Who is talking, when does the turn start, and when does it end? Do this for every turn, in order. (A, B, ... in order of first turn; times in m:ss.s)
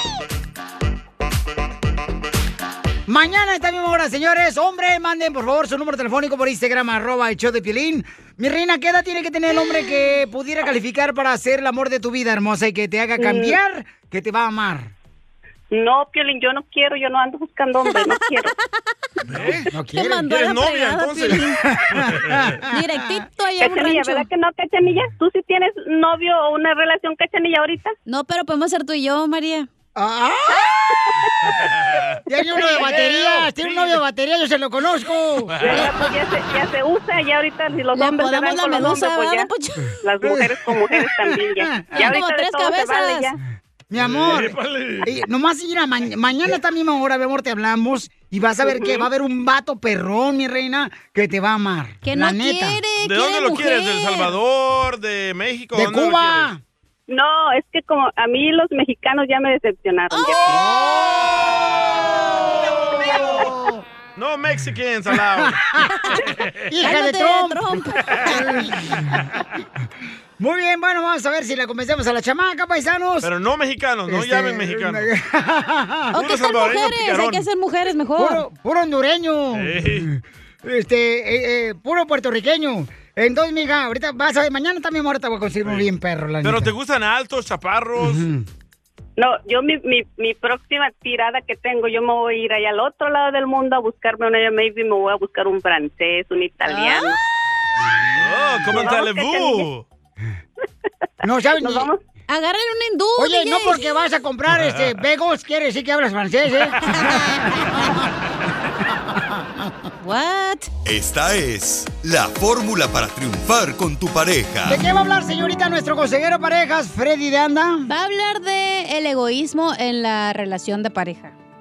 0:03.1-0:14.9 A
0:13.2-0:13.6 B
0:15.7-0:18.5 B
0:17.9-0:18.4 C
0:19.3-0:19.7 D
0:19.4-0:20.3 A
0:19.9-0:21.6 C
0:20.3-0:21.4 D
0:21.6-0:23.1 A
0:22.0-0:22.6 D
0:22.7-0:24.3 C
0:23.6-0:28.0 B
0:28.1-0:29.7 C
0:30.0-0:30.9 A
0:31.5-0:34.0 D
0:32.3-0:35.9 A
0:35.5-0:35.9 D
0:35.6-0:39.5 B
0:37.9-0:40.0 C
0:40.0-0:43.4 B
0:40.2-0:42.1 A
0:41.9-0:43.3 C
0:43.9-0:52.8 A
0:44.0-0:45.1 D
0:48.6-0:49.1 B
0:52.0-0:54.3 C
0:53.0-0:56.5 D
0:55.8-0:56.6 A
0:57.1-1:00.6 B
1:00.1-1:00.6 C
1:00.5-1:01.4 A
1:00.8-1:02.0 D
1:02.7-1:03.4 D
1:03.0-1:03.8 A
1:04.2-1:06.7 D
1:05.4-1:06.0 A
1:06.7-1:07.7 A
1:06.8-1:08.6 C
1:08.1-1:08.3 D
1:08.2-1:09.3 A
1:10.4-1:13.3 A
1:13.2-1:15.1 D
1:14.1-1:16.2 A
1:16.1-1:18.4 C
1:16.2-1:17.5 D
1:18.2-1:26.7 A
1:19.5-1:20.1 D
1:26.4-1:28.2 D
1:28.0-1:28.5 A
1:29.2-1:37.2 B
1:36.7-1:37.1 C
1:38.2-1:39.9 D
1:38.7-1:39.7 B
1:41.2-1:41.9 A
1:41.6-1:42.0 B
1:42.3-1:44.0 C
1:43.2-1:48.0 A
1:44.5-1:45.0 D
1:47.0-1:47.5 C
1:49.1-1:49.4 A
1:50.0-1:50.7 C
1:50.8-1:54.8 E
1:54.7-1:57.9 A
1:57.9-2:01.4 C